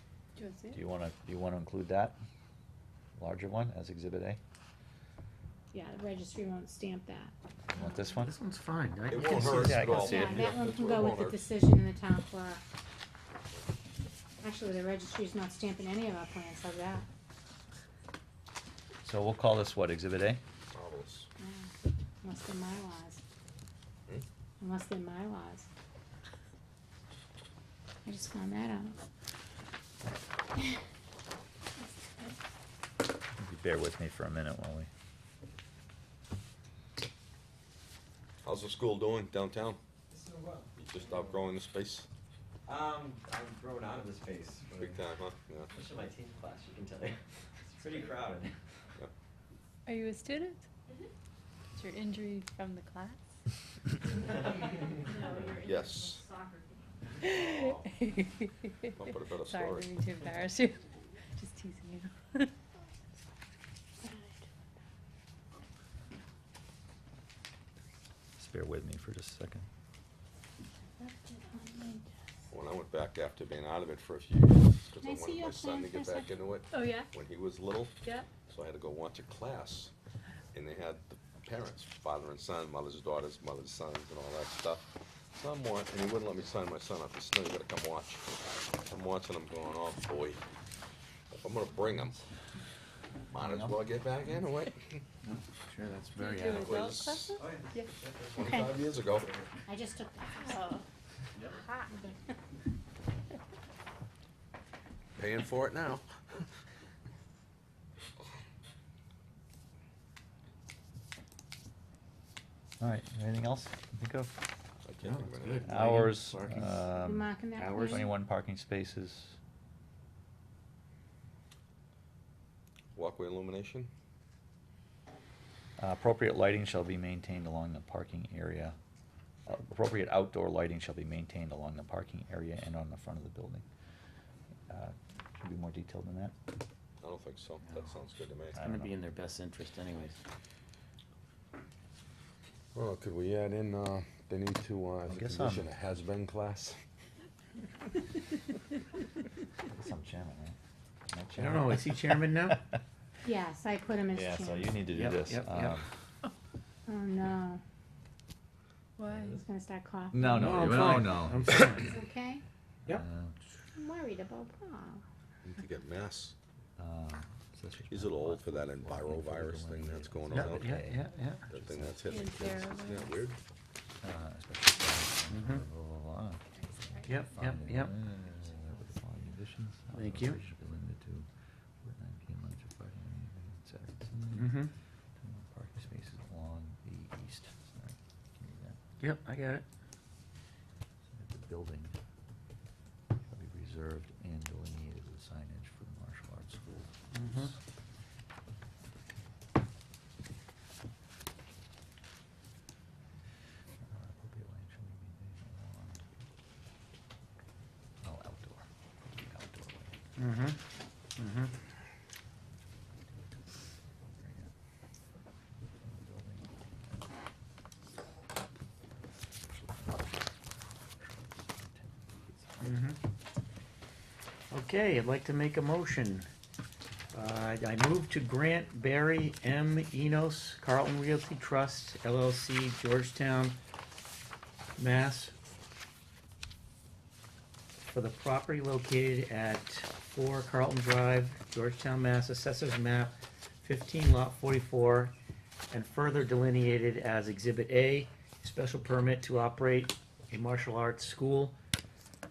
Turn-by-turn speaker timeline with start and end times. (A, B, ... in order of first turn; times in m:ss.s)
0:00.4-0:00.8 A
0:00.7-0:02.2 B
0:03.2-0:04.4 B
0:05.7-0:08.1 C
0:07.7-0:08.3 B
0:08.2-0:10.4 D
0:09.1-0:11.5 E
0:09.3-0:10.3 B
0:09.7-0:12.6 C
0:14.4-0:17.1 C
0:19.0-0:20.4 B
0:20.7-0:21.3 E
0:21.4-0:21.7 C
0:22.2-0:23.2 C
0:24.6-0:25.7 C
0:28.0-0:29.0 C
0:33.4-0:34.9 B
0:38.4-0:39.8 E
0:40.1-0:41.5 F
0:40.8-0:42.1 E
0:42.7-0:45.0 F
0:44.8-0:45.7 E
0:45.7-0:48.6 F
0:49.9-0:50.7 A
0:51.8-0:53.2 A
0:54.4-0:54.7 F
0:55.5-0:56.3 E
0:57.4-0:58.5 A
0:59.0-0:59.9 E
0:59.4-1:02.5 A
1:04.0-1:04.5 C
1:08.4-1:09.7 B
1:11.0-1:12.1 C
1:12.5-1:19.9 E
1:15.0-1:16.3 C
1:16.7-1:17.1 A
1:20.5-1:30.4 E
1:31.3-1:32.2 E
1:33.3-1:35.0 E
1:33.3-1:33.8 B
1:35.7-1:36.8 D
1:36.1-1:37.9 A
1:36.4-1:37.4 E
1:37.4-1:39.4 F
1:38.3-1:39.3 E
1:39.7-1:40.8 C
1:40.4-1:40.8 A
1:41.6-1:41.9 C
1:45.2-1:46.5 E
1:52.8-1:54.3 B
1:54.8-1:55.9 E
1:55.0-1:56.9 D
1:55.6-1:59.4 B
1:57.0-1:58.1 C
1:57.6-1:58.1 D
2:02.9-2:03.9 E
2:05.8-2:08.8 B
2:09.5-2:13.6 B
2:14.7-2:16.3 B
2:17.0-2:18.6 E
2:18.6-2:18.9 B
2:18.6-2:20.2 D
2:22.8-2:26.8 E
2:25.1-2:25.6 B
2:29.6-2:30.6 B
2:31.1-2:32.1 B
2:31.4-2:32.6 D
2:33.2-2:34.8 C
2:34.1-2:35.9 B
2:34.9-2:35.8 D
2:36.8-2:37.6 C
2:39.0-2:39.4 A
2:39.3-2:42.4 C
2:40.1-2:41.9 B
2:40.3-2:42.0 D
2:42.8-2:43.4 B
2:43.8-2:45.0 C
2:45.4-2:46.3 E
2:46.8-2:52.1 B
2:47.9-2:50.8 E
2:50.3-2:51.5 D
2:51.5-2:53.4 E
2:52.1-2:53.1 A
2:54.0-3:01.3 B
2:55.3-2:55.6 D
2:57.1-2:57.9 D
2:59.9-3:00.4 D
3:01.8-3:04.6 B
3:04.3-3:04.7 D
3:05.2-3:08.8 B
3:09.0-3:09.6 D
3:11.1-3:11.9 B
3:13.3-3:17.6 B
3:17.1-3:17.5 D
3:23.8-3:26.1 B
3:28.0-3:30.0 B
3:30.2-3:30.6 D
3:31.2-3:31.5 D
3:32.8-3:33.5 B
3:34.2-3:34.5 B
3:35.8-3:37.1 B
3:39.3-3:42.8 B
3:42.6-3:43.0 D
3:44.5-3:46.3 D
3:47.1-3:53.6 D
3:54.8-3:55.4 D
3:57.9-4:05.2 D
4:05.7-4:11.6 D